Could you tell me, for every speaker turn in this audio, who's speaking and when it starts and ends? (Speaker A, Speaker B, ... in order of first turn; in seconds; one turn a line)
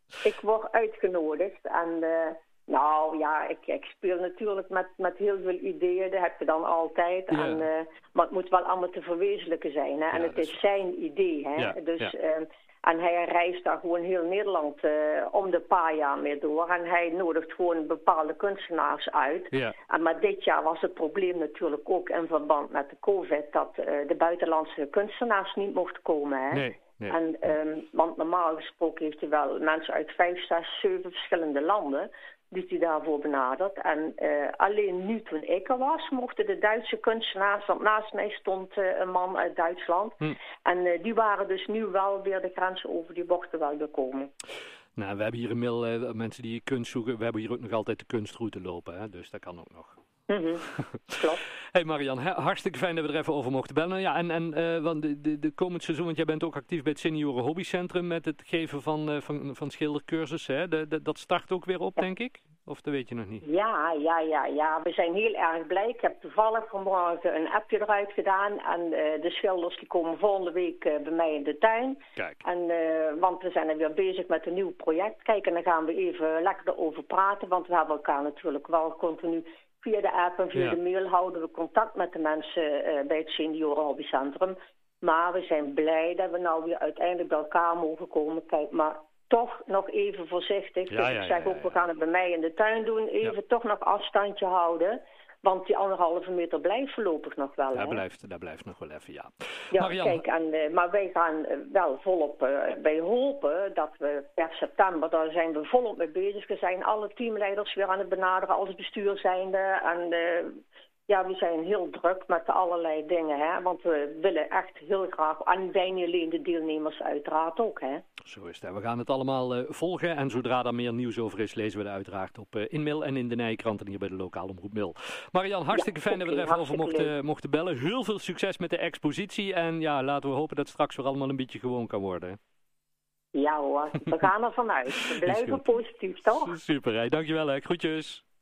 Speaker A: 0.2-44.3
Speaker B: 7.3-7.6
Speaker B: 10.1-10.6
Speaker B: 11.6-12.1
Speaker B: 26.5-27.1
Speaker B: 45.0-50.0
Speaker A: 50.3-51.4
Speaker B: 51.7-63.4
Speaker A: 63.4-98.0
Speaker B: 72.2-72.4
Speaker B: 90.9-91.8
Speaker B: 97.7-100.2
Speaker A: 99.7-118.0
Speaker B: 118.2-132.4
Speaker A: 125.7-127.1
Speaker A: 133.3-136.6
Speaker B: 135.0-135.6
Speaker B: 136.3-138.2